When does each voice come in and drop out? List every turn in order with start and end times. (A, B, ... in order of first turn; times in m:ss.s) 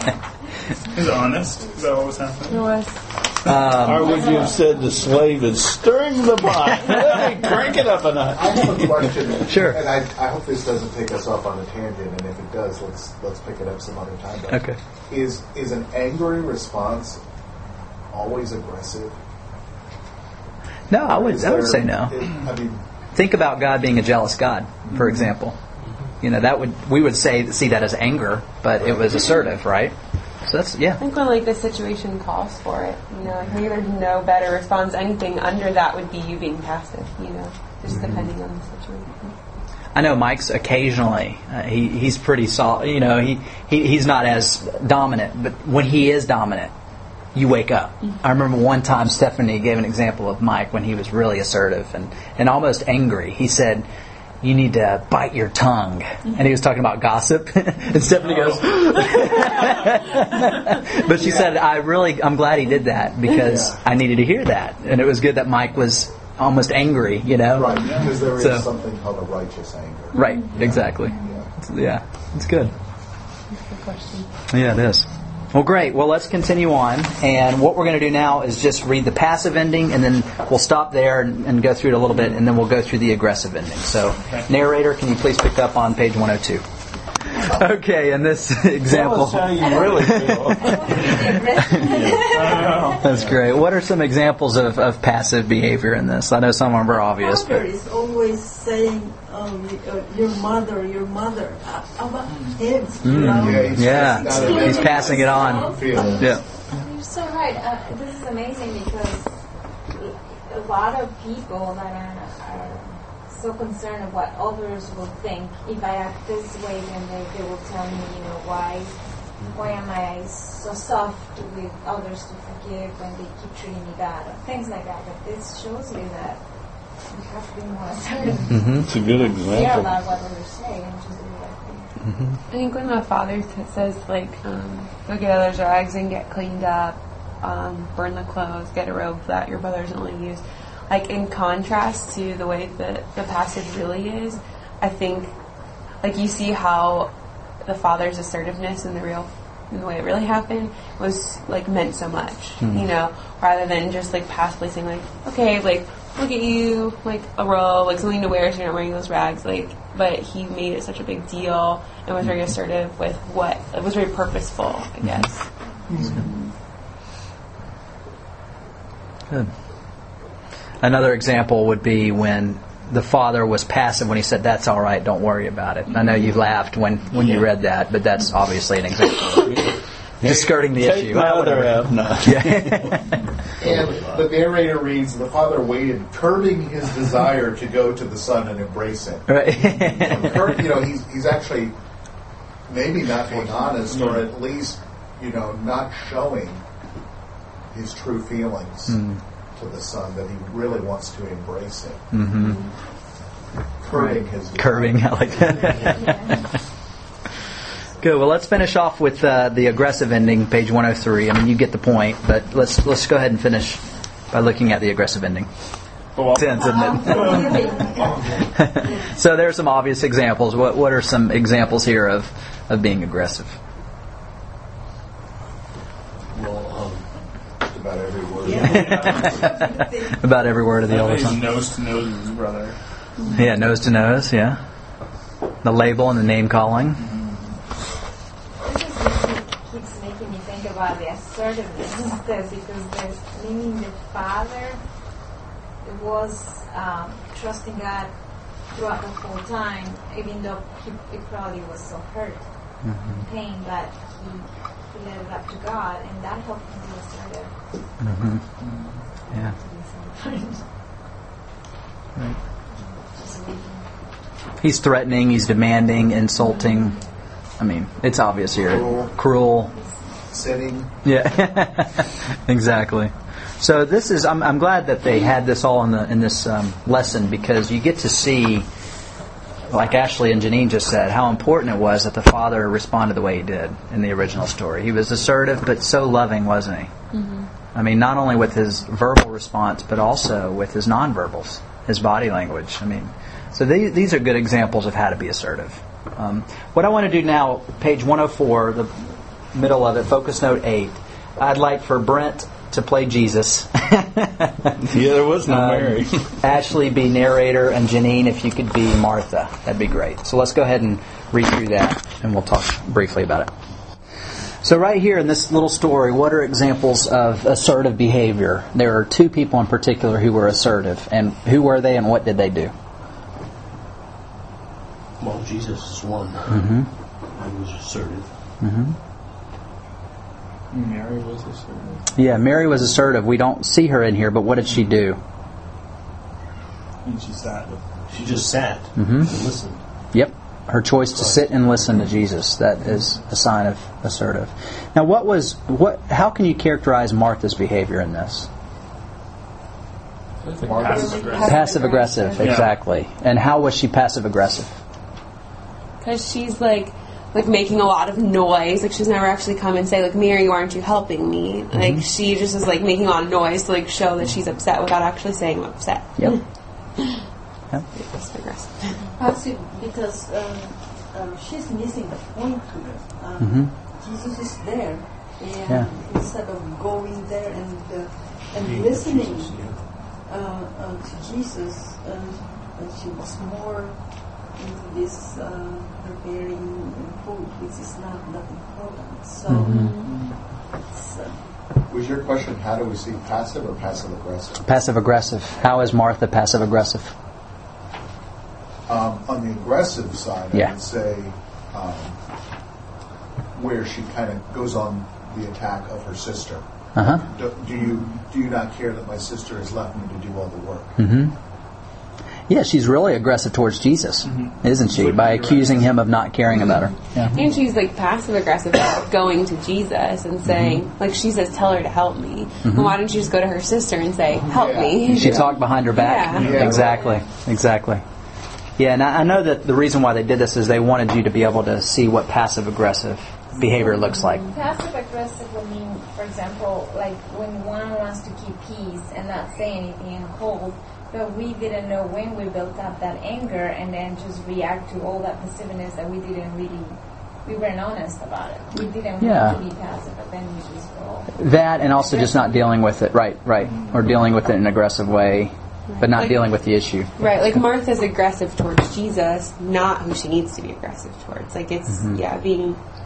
0:00.9-0:02.7 A
0:02.5-0:03.0 B
0:03.4-0:04.2 C
0:03.6-0:09.1 D
0:06.8-0:07.2 C
0:08.3-0:17.2 E
0:09.4-0:09.8 C
0:14.5-0:14.8 C
0:18.1-0:19.2 E
0:20.9-0:22.3 C
0:21.0-0:22.8 E
0:23.1-0:25.6 C
0:26.2-0:31.0 C
0:31.0-0:39.3 B
0:39.9-0:46.7 C
0:47.3-0:53.8 C
0:54.4-1:08.7 C
0:58.2-0:59.4 A
1:01.2-1:01.5 E
1:03.4-1:03.8 E
1:07.5-1:11.5 E
1:10.1-1:12.7 C
1:10.8-1:11.4 F
1:13.5-1:14.3 B
1:14.5-1:26.6 C
1:27.3-1:30.8 C
1:28.8-1:33.4 D
1:29.6-1:33.0 F
1:31.7-1:32.0 C
1:32.1-1:33.2 A
1:33.0-1:37.6 C
1:37.1-1:45.3 G
1:42.3-1:42.6 A
1:43.0-1:46.4 C
1:43.1-1:46.3 E
1:44.2-1:59.0 F
1:59.5-2:11.9 F
2:08.5-2:08.9 C
2:08.7-2:09.9 D
2:12.0-2:12.4 C
2:12.5-2:25.3 B
2:26.0-2:27.1 B
2:27.6-2:46.5 B
2:45.0-2:45.3 C
2:50.8-3:03.2 C
2:57.1-2:57.5 H
2:59.4-3:03.2 D
3:03.6-3:04.3 H
3:03.6-3:11.7 E
3:09.3-3:10.5 C
3:12.7-3:16.6 E
3:13.9-3:14.3 A
3:17.7-3:22.0 E
3:18.9-3:19.2 C
3:22.1-3:22.6 C
3:22.4-3:22.7 B
3:23.8-3:25.9 E
3:23.9-3:26.6 C
3:25.8-3:26.4 F
3:28.0-3:35.5 C
3:36.1-3:37.9 A
3:36.3-3:37.6 C
3:36.6-3:39.1 G
3:37.9-3:38.4 H
3:38.5-3:43.6 C
3:46.3-3:47.1 H
3:47.6-3:49.2 E
3:48.4-3:50.2 G
3:48.7-3:51.4 C
3:48.8-3:49.4 A
3:50.9-3:52.8 A
3:53.2-3:53.4 B
3:53.3-3:54.6 C
3:55.6-3:57.0 C
3:57.0-3:57.4 A
3:58.6-4:04.8 F
4:05.8-4:17.6 F
4:12.8-4:13.2 C
4:18.0-4:18.4 C
4:18.6-4:19.0 A
4:19.3-4:20.6 F
4:19.3-4:19.6 C
4:22.7-4:23.9 F
4:24.6-4:27.0 C
4:27.6-4:29.7 C
4:28.6-4:29.1 E
4:30.3-4:30.9 E
4:31.0-4:38.6 C
4:39.7-4:46.9 C
4:47.1-4:47.5 B
4:47.7-5:04.8 C
5:04.8-5:06.4 D
5:05.4-5:13.5 C
5:14.6-5:22.7 C
5:25.2-5:26.7 H
5:26.5-5:26.9 C
5:27.3-5:28.3 H
5:28.6-5:29.0 C
5:30.7-5:32.1 A
5:32.1-5:35.2 C
5:37.0-5:37.8 A
5:38.1-5:39.8 H
5:39.0-5:39.3 C
5:40.1-5:48.5 C
5:41.1-5:41.4 H
5:50.4-5:51.7 A
5:50.6-5:51.5 E
5:50.8-5:52.6 B
5:51.4-5:54.8 C
5:52.4-5:52.7 A
5:56.0-6:06.4 B
6:01.7-6:02.0 C
6:07.9-6:09.0 B
6:09.2-6:29.8 G
6:13.4-6:13.7 C
6:18.5-6:19.9 H
6:29.5-6:30.0 C
6:29.7-6:30.1 B
6:30.0-6:30.4 A
6:30.8-6:31.4 G
6:31.9-6:34.6 E
6:34.6-6:37.1 C
6:38.9-6:42.2 E
6:43.5-6:50.9 E
6:46.9-6:47.2 C
6:47.8-6:48.2 A
6:51.0-6:51.3 C
6:52.5-6:57.3 C
6:54.2-6:55.9 A
6:57.3-7:06.7 B
7:00.4-7:00.8 C
7:02.6-7:02.9 C
7:04.5-7:05.0 E
7:05.0-7:08.0 C
7:06.3-7:07.0 E
7:06.5-7:07.3 F
7:08.8-7:14.4 C
7:14.0-7:14.5 B
7:14.5-7:32.7 F
7:29.2-7:29.6 C
7:31.3-7:37.1 C
7:33.6-7:33.9 A
7:35.9-7:36.5 B
7:37.2-7:42.8 B
7:41.9-7:42.2 C